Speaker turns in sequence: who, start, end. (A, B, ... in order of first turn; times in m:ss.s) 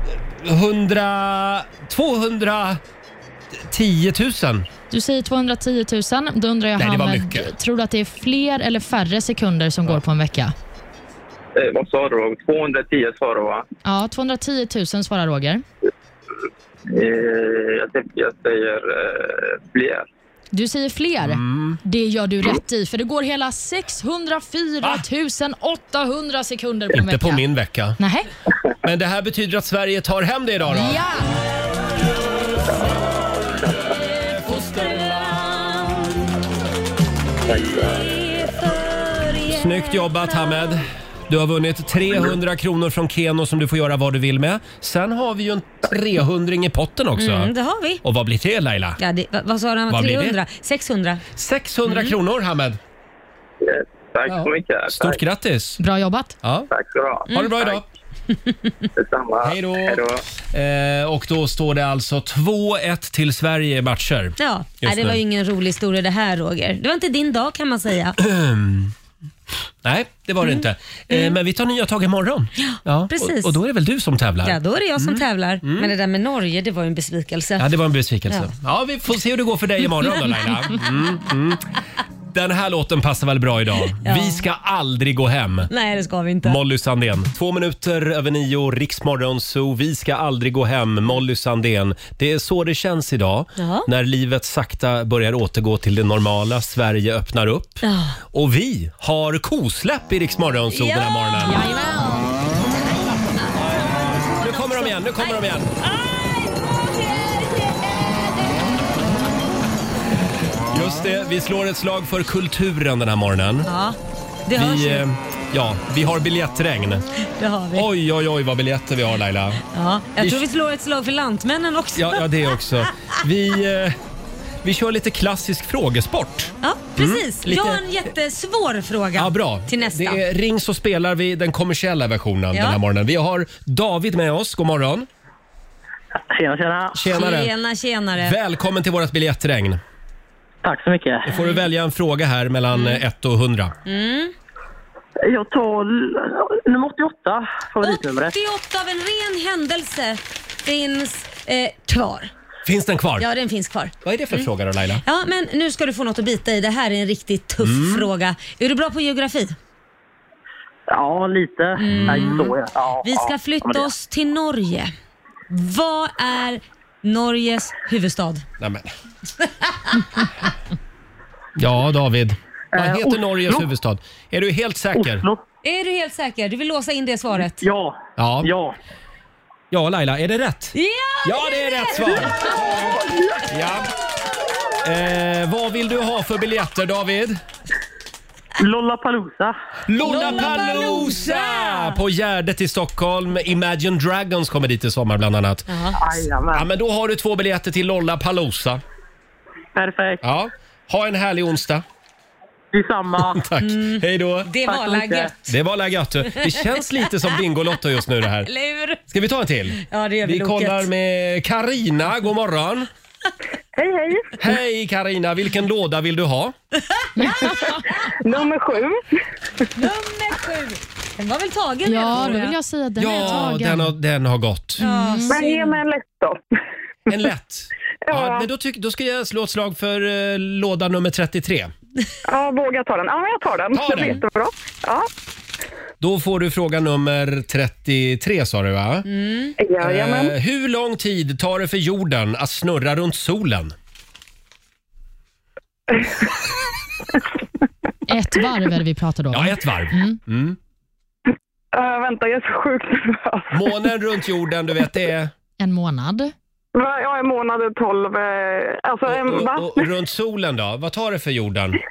0:00.3-0:02.8 A
0:03.7-0:04.7 A
0:04.9-0:10.5 B
0:06.8-0:07.5 A
0:11.6-0:13.6 C
0:13.8-0:15.6 B
0:16.9-0:20.1 C
0:20.5-0:27.4 B
0:21.2-0:21.8 A
0:26.9-0:28.0 A
0:28.0-0:28.3 B
0:28.8-0:31.0 A
0:30.7-0:31.3 B
0:34.2-0:36.2 D
0:34.4-0:35.4 A
0:37.5-0:38.1 C
0:37.6-0:40.8 D
0:39.5-0:47.5 A
0:47.2-0:48.0 D
0:48.0-0:49.0 A
0:49.0-0:51.2 D
0:49.9-0:50.4 A
0:51.4-0:52.8 A
0:51.8-0:52.2 D
0:53.6-0:55.2 C
0:54.3-0:55.8 A
0:55.8-0:56.4 B
0:56.4-0:56.7 A
0:56.7-0:57.8 C
0:57.3-0:57.6 D
0:57.3-0:57.8 A
0:58.9-1:00.2 C
0:59.4-1:05.2 A
1:04.4-1:08.2 D
1:08.2-1:08.9 A
1:09.8-1:15.9 A
1:10.4-1:11.4 D
1:12.6-1:13.6 D
1:14.4-1:17.7 D
1:17.6-1:21.6 A
1:22.3-1:25.7 A
1:24.0-1:24.4 D
1:25.7-1:26.6 D
1:26.4-1:41.6 A
1:33.6-1:33.9 D
1:37.8-1:38.2 D
1:40.7-1:48.6 D
1:41.5-1:42.1 B
1:44.4-1:45.7 A
1:50.7-1:53.7 A
1:53.6-1:55.1 D
1:54.5-1:57.0 A
1:57.4-1:57.9 D
1:57.7-1:59.6 A
1:59.7-2:02.9 D
2:00.2-2:00.4 A
2:01.9-2:04.0 A
2:04.6-2:07.8 A
2:06.6-2:10.2 D
2:09.1-2:15.1 A
2:12.5-2:12.8 D
2:16.3-2:16.9 E
2:16.9-2:17.5 A
2:17.1-2:18.4 D
2:18.2-2:19.8 A
2:20.6-2:21.2 E
2:21.2-2:23.7 A
2:21.4-2:21.6 D
2:22.7-2:23.0 D
2:23.8-2:24.3 D
2:25.2-2:28.3 E
2:27.8-2:32.3 D
2:32.6-2:33.2 A
2:33.2-2:34.5 D
2:34.0-2:35.0 A
2:35.0-2:39.6 D
2:37.6-2:38.1 A
2:40.9-2:43.9 E
2:41.8-2:42.5 D
2:41.8-2:42.5 A
2:43.0-2:44.9 D
2:45.5-2:48.4 D
2:48.6-2:48.9 A
2:49.4-2:50.0 D
2:51.6-2:55.2 A
2:52.7-2:53.6 E
2:54.9-2:55.4 E
2:55.6-2:57.6 D
2:57.6-2:58.8 E
2:58.2-2:58.5 A
2:59.7-3:03.9 A
3:00.7-3:02.6 D
3:04.8-3:07.4 A
3:08.6-3:09.5 E
3:09.9-3:15.7 A
3:10.0-3:12.0 D
3:15.7-3:16.0 D
3:16.0-3:16.7 E
3:16.5-3:18.8 A
3:19.7-3:20.2 E
3:20.2-3:21.8 A
3:22.7-3:23.4 E
3:23.3-3:24.5 A
3:23.6-3:25.5 D
3:24.6-3:25.3 E
3:25.5-3:28.5 A
3:26.2-3:27.3 D
3:28.4-3:29.0 D
3:29.1-3:32.9 A
3:29.8-3:30.9 D
3:33.8-3:34.3 F
3:34.4-3:36.5 A
3:37.2-3:37.8 B
3:38.2-3:39.0 F
3:39.8-3:42.6 D
3:41.8-3:43.9 B
3:43.0-3:44.8 A
3:44.8-3:45.5 B
3:44.8-3:45.8 D
3:45.3-3:46.4 F
3:47.1-3:51.7 A
3:48.1-3:48.5 F
3:52.2-3:55.1 F
3:53.7-3:54.2 A
3:56.0-3:59.1 A
3:59.0-3:59.5 D
3:59.6-4:00.3 F
3:59.8-4:03.7 A
4:08.1-4:10.2 B
4:09.3-4:10.6 A
4:11.7-4:13.8 F
4:13.5-4:15.3 A
4:15.6-4:16.3 B
4:16.7-4:19.9 F
4:19.0-4:21.8 A